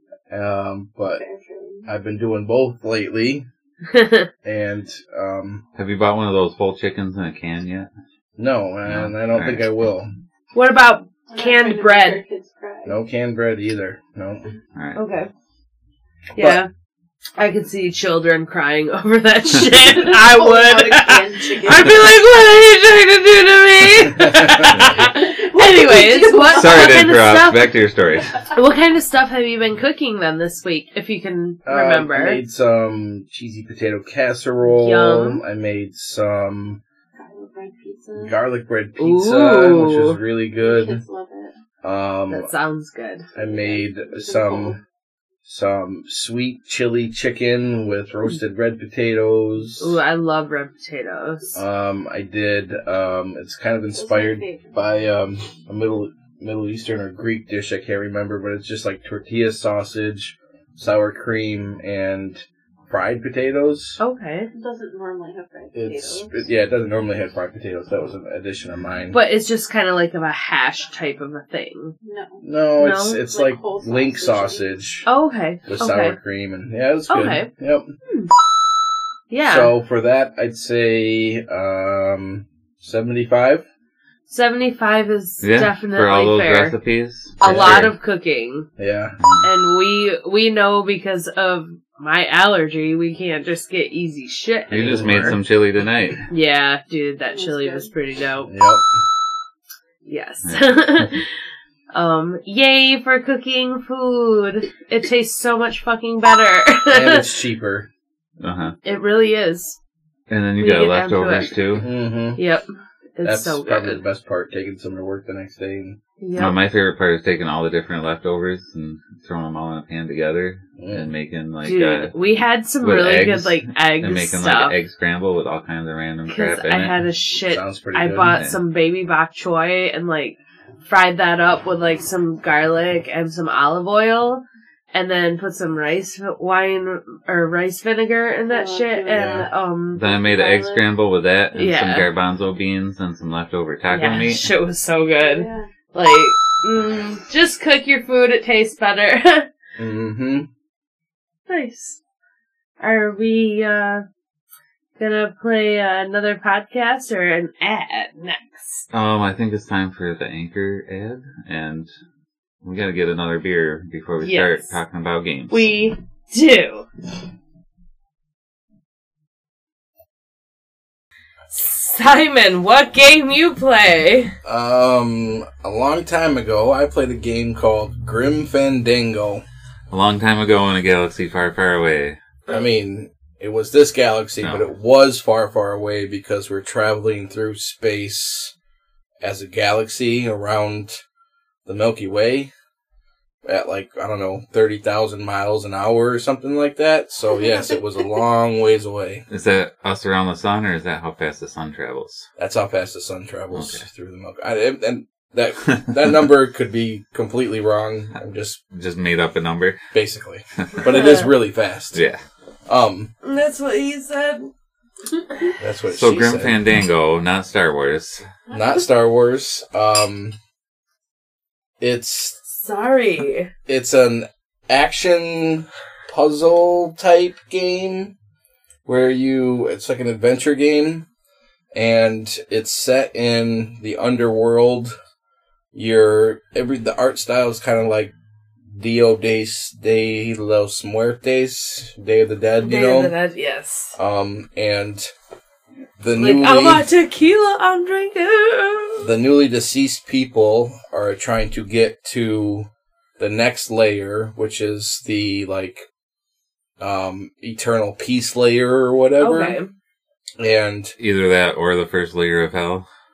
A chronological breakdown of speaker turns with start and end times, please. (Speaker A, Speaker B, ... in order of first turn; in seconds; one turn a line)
Speaker A: 0.3-1.2
Speaker B: 1.1-1.9
Speaker A: 1.9-3.5
Speaker C: 3.9-4.3
Speaker A: 4.4-5.6
Speaker D: 5.8-7.9
Speaker A: 8.4-10.1
Speaker D: 8.9-9.7
Speaker C: 10.5-12.2
Speaker B: 11.3-13.0
Speaker A: 12.8-14.5
Speaker D: 14.7-15.0
Speaker C: 14.9-15.3
Speaker A: 16.4-16.6
Speaker C: 16.4-16.7
Speaker C: 17.4-27.7
Speaker B: 19.8-22.1
Speaker A: 24.1-24.8
Speaker B: 25.0-27.1
Speaker D: 26.5-28.4
Speaker C: 28.4-32.4
Speaker A: 31.6-36.8
Speaker C: 34.6-35.4
Speaker B: 37.1-38.4
Speaker A: 38.1-41.0
Speaker C: 39.0-40.2
Speaker B: 40.6-41.5
Speaker A: 41.8-42.5
Speaker C: 42.3-43.3
Speaker A: 43.3-44.8
Speaker B: 43.3-44.8
Speaker A: 45.4-50.0
Speaker C: 49.8-51.6
Speaker A: 51.5-64.0
Speaker B: 53.9-54.8
Speaker C: 64.0-64.5
Speaker B: 64.5-66.5
Speaker A: 65.7-69.2
Speaker C: 69.1-72.0
Speaker B: 72.0-72.4
Speaker A: 72.4-75.1
Speaker C: 72.8-73.2
Speaker B: 73.2-74.7
Speaker C: 75.0-76.2
Speaker A: 75.7-77.9
Speaker C: 77.1-77.5
Speaker C: 79.3-79.7
Speaker A: 79.4-83.6
Speaker C: 84.3-86.8
Speaker D: 85.4-87.9
Speaker C: 87.4-88.7
Speaker A: 88.8-89.2
Speaker D: 89.2-89.5
Speaker C: 89.4-95.3
Speaker D: 94.7-96.2
Speaker A: 94.8-95.4
Speaker C: 96.3-98.5
Speaker B: 97.3-97.9
Speaker A: 98.5-99.0
Speaker C: 100.0-101.3
Speaker D: 100.4-101.0
Speaker C: 101.9-107.2
Speaker A: 106.9-107.9
Speaker D: 108.4-108.8
Speaker C: 108.8-109.8
Speaker D: 110.3-111.9
Speaker C: 110.6-111.5
Speaker A: 111.8-112.4
Speaker C: 112.3-114.0
Speaker A: 113.2-116.0
Speaker C: 116.2-116.6
Speaker D: 116.4-122.1
Speaker A: 120.8-121.1
Speaker C: 121.6-124.8
Speaker D: 122.8-127.0
Speaker C: 126.3-140.7
Speaker A: 127.5-128.4
Speaker B: 138.5-139.5
Speaker A: 139.1-139.4
Speaker D: 139.9-144.5
Speaker C: 141.5-142.1
Speaker C: 143.9-149.5
Speaker B: 145.2-145.7
Speaker A: 149.8-150.5
Speaker C: 151.5-152.0
Speaker C: 152.8-154.0
Speaker C: 155.0-158.8
Speaker D: 158.9-161.9
Speaker D: 162.6-165.7
Speaker C: 164.2-164.7
Speaker C: 165.5-166.9
Speaker C: 171.5-174.3
Speaker A: 174.4-179.4
Speaker D: 179.9-182.2
Speaker A: 182.5-188.5
Speaker A: 189.2-191.0
Speaker A: 191.7-192.5
Speaker A: 193.4-199.2
Speaker D: 199.3-202.3
Speaker A: 202.4-208.6
Speaker D: 203.5-203.8
Speaker D: 208.7-209.8
Speaker A: 209.9-212.0
Speaker C: 210.8-211.3
Speaker D: 211.9-212.2
Speaker A: 212.7-213.1
Speaker C: 213.2-214.5
Speaker A: 215.6-216.6
Speaker D: 215.9-218.2
Speaker B: 218.5-218.8
Speaker A: 218.5-220.3
Speaker A: 221.8-222.4
Speaker C: 222.5-223.5
Speaker A: 223.7-228.1
Speaker A: 228.8-231.1
Speaker A: 231.7-234.9
Speaker A: 235.7-238.1
Speaker A: 238.7-243.1
Speaker C: 242.6-243.9
Speaker A: 243.9-245.1
Speaker A: 246.0-246.8
Speaker C: 246.2-249.1
Speaker A: 249.0-255.9
Speaker A: 256.8-259.6
Speaker C: 259.2-259.7
Speaker A: 260.4-260.9
Speaker D: 261.0-262.9